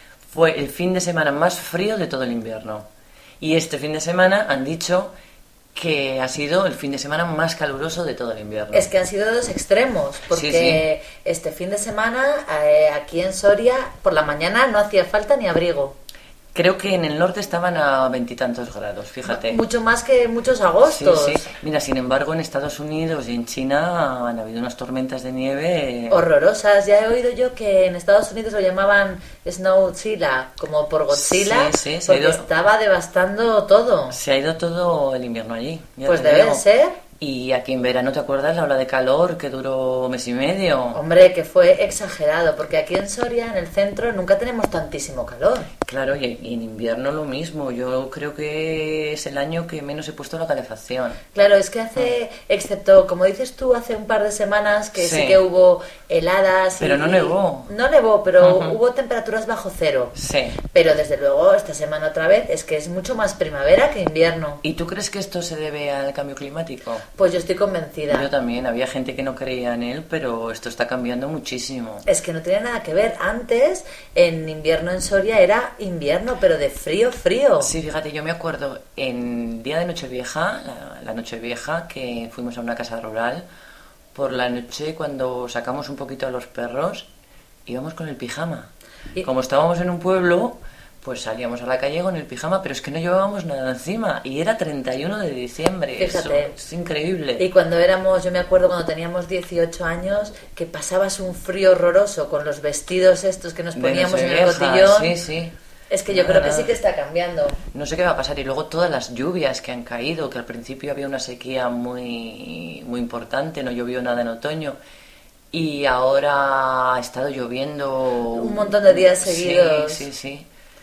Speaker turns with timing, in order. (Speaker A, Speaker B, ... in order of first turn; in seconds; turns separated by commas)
Speaker A: 0.3-2.9, Speaker A: 3.4-5.1, Speaker A: 5.7-8.9, Speaker B: 8.7-15.9, Speaker A: 10.3-10.8, Speaker A: 16.5-19.6, Speaker B: 19.2-21.4, Speaker A: 20.8-26.3, Speaker B: 26.1-34.2, Speaker A: 31.1-32.5, Speaker A: 34.1-36.6, Speaker B: 36.0-37.0, Speaker A: 37.2-41.0, Speaker B: 40.9-45.7, Speaker A: 45.8-51.2, Speaker B: 51.3-60.1, Speaker A: 55.0-55.4, Speaker A: 56.8-57.7, Speaker A: 58.4-58.8, Speaker A: 60.1-60.6, Speaker B: 60.7-64.6, Speaker A: 64.6-67.0, Speaker B: 67.1-68.3, Speaker A: 68.1-72.0, Speaker B: 72.0-77.7, Speaker A: 77.6-83.4, Speaker A: 84.1-87.1, Speaker A: 87.7-88.7, Speaker A: 89.2-97.4, Speaker B: 96.0-96.5, Speaker B: 97.4-105.2, Speaker A: 103.7-105.5, Speaker B: 105.9-107.6, Speaker A: 106.1-106.8, Speaker A: 107.7-114.8, Speaker A: 115.5-120.5, Speaker B: 118.3-120.1